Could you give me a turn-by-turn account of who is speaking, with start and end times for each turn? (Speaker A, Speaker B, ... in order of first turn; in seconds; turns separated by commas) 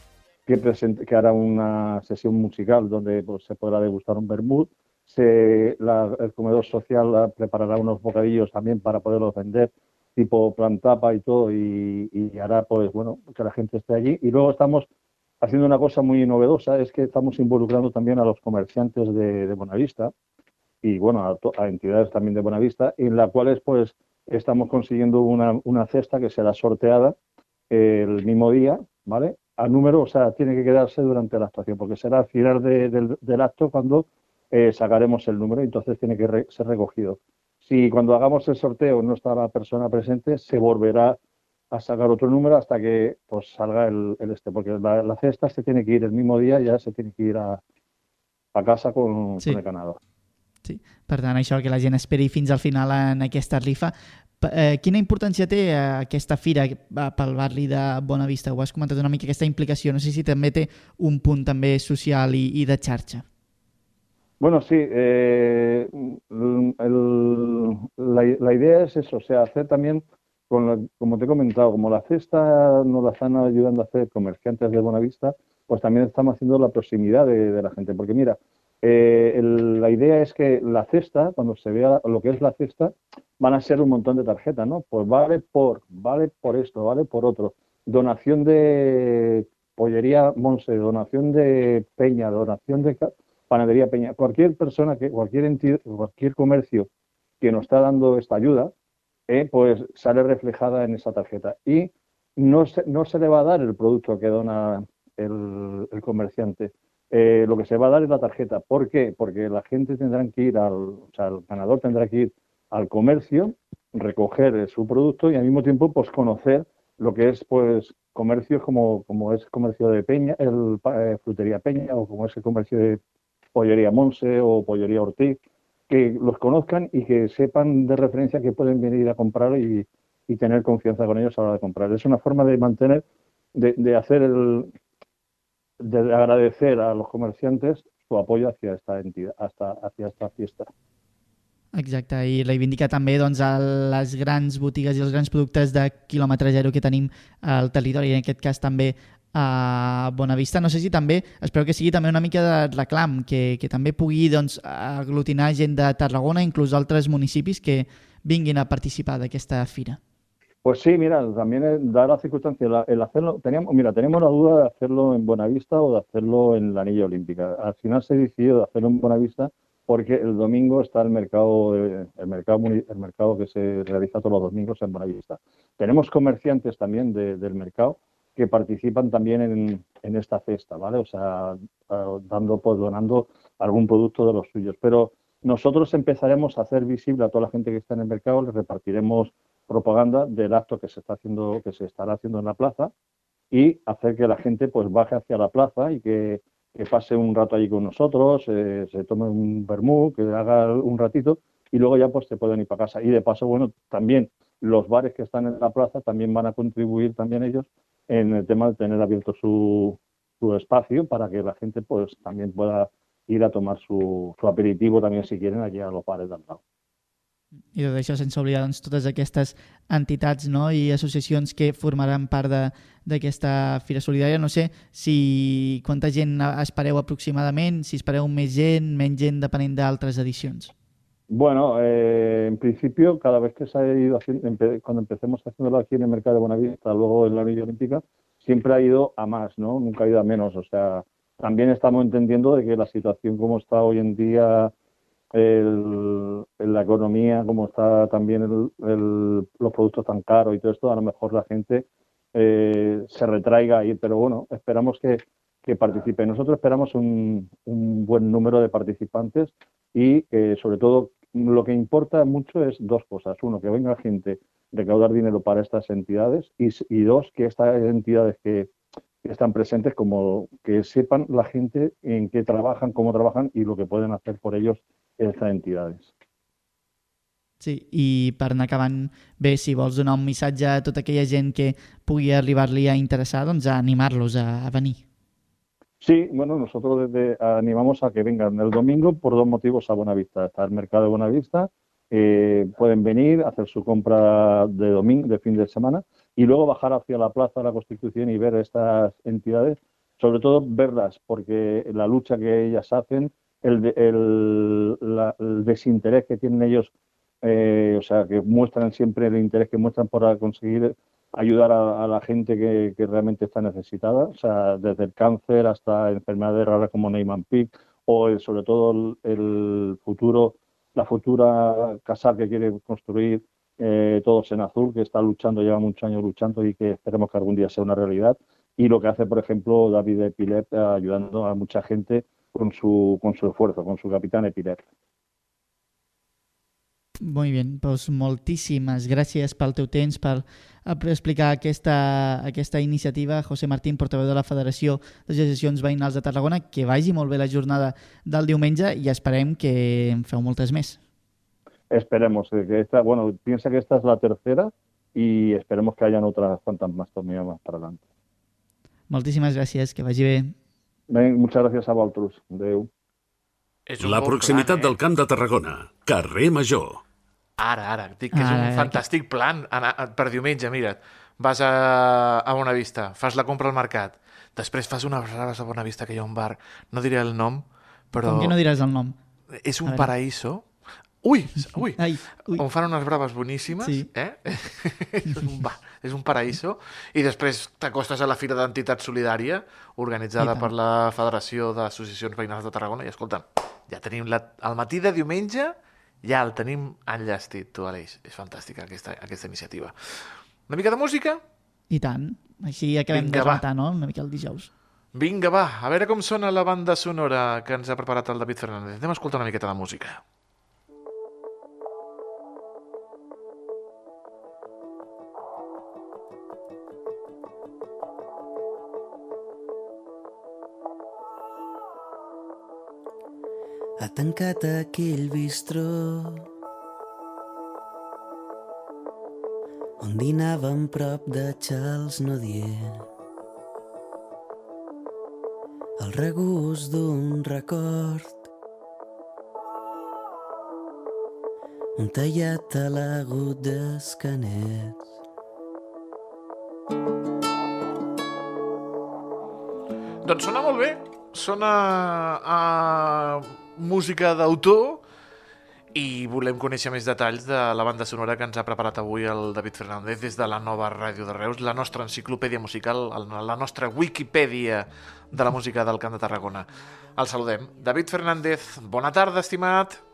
Speaker A: 0.5-14.9, Speaker A: 15.4-20.1, Speaker A: 20.8-27.1, Speaker A: 27.7-41.2, Speaker A: 41.7-47.6, Speaker A: 48.5-50.0, Speaker B: 50.6-63.2, Speaker A: 64.4-96.9, Speaker A: 97.4-98.7, Speaker A: 99.3-123.0, Speaker A: 123.5-134.7, Speaker A: 135.8-140.7, Speaker B: 141.7-160.0, Speaker A: 160.6-192.9, Speaker A: 193.5-216.6, Speaker B: 217.7-230.7, Speaker A: 231.3-244.7, Speaker A: 245.3-268.7, Speaker A: 269.2-276.1, Speaker B: 277.6-285.0, Speaker A: 286.0-306.9, Speaker A: 307.4-334.8, Speaker B: 337.2-351.0, Speaker A: 351.9-358.0, Speaker B: 359.1-360.5, Speaker A: 361.1-362.9, Speaker C: 363.9-364.9, Speaker D: 364.0-367.0, Speaker C: 367.6-378.6, Speaker B: 368.3-369.0, Speaker B: 378.1-379.1, Speaker C: 379.6-380.7, Speaker B: 379.8-380.1, Speaker C: 381.2-382.0, Speaker B: 382.0-382.6, Speaker C: 382.5-401.4, Speaker B: 383.8-384.1, Speaker B: 390.4-390.7, Speaker B: 401.9-404.7, Speaker C: 403.1-403.6, Speaker C: 405.1-410.2, Speaker E: 424.0-426.4, Speaker E: 430.0-433.1, Speaker E: 436.0-438.4, Speaker E: 442.0-445.0, Speaker C: 450.2-455.0, Speaker C: 455.9-470.0